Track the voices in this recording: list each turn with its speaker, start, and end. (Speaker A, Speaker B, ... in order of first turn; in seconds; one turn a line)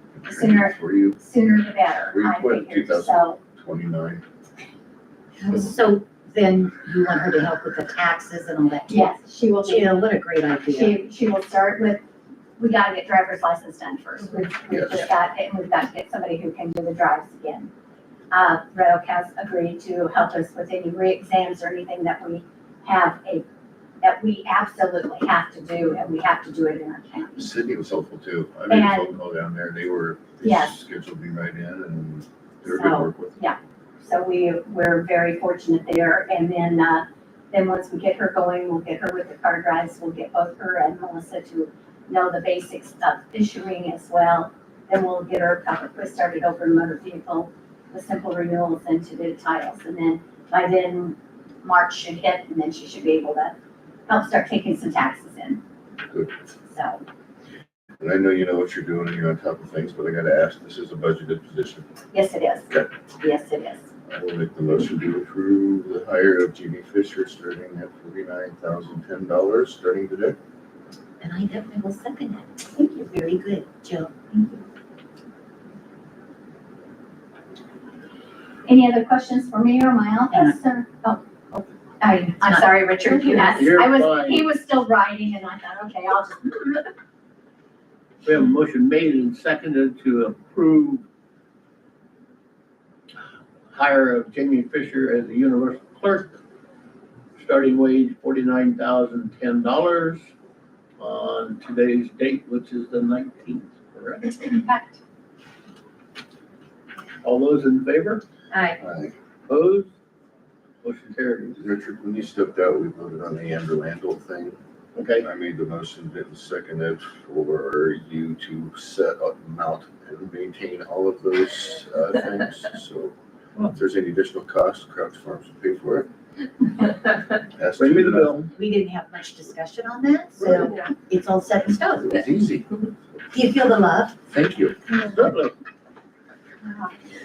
Speaker A: 0.2-1.2
Speaker B: 0.2-3.4
Speaker A: 2.1-4.2
Speaker C: 5.4-11.0
Speaker B: 8.9-10.0
Speaker B: 10.7-12.0
Speaker B: 12.6-17.7
Speaker A: 14.7-15.1
Speaker B: 18.3-23.4
Speaker B: 24.0-27.5
Speaker A: 27.4-33.4
Speaker B: 28.7-29.2
Speaker B: 30.4-30.7
Speaker B: 32.6-53.5
Speaker B: 54.1-55.6
Speaker B: 56.7-57.0
Speaker A: 58.0-61.9
Speaker B: 62.1-63.8
Speaker A: 64.1-70.4
Speaker C: 71.2-74.2
Speaker B: 72.8-73.0
Speaker B: 74.3-74.6
Speaker B: 78.7-86.8
Speaker C: 80.3-80.6
Speaker C: 82.4-83.6
Speaker D: 83.3-84.5
Speaker D: 88.2-91.0
Speaker D: 93.7-96.3
Speaker D: 97.4-100.2
Speaker D: 101.0-104.3
Speaker B: 104.2-105.0
Speaker D: 107.2-108.2
Speaker B: 108.5-108.8
Speaker A: 108.8-109.1
Speaker D: 109.5-109.9
Speaker D: 110.8-111.6
Speaker A: 111.5-114.6
Speaker D: 115.0-115.2
Speaker A: 115.2-123.2
Speaker A: 123.7-126.1
Speaker A: 127.5-128.4
Speaker D: 127.8-128.5
Speaker C: 128.6-132.2
Speaker A: 132.0-132.7
Speaker C: 133.3-134.2
Speaker A: 134.3-134.8
Speaker D: 134.9-135.5
Speaker B: 136.6-136.9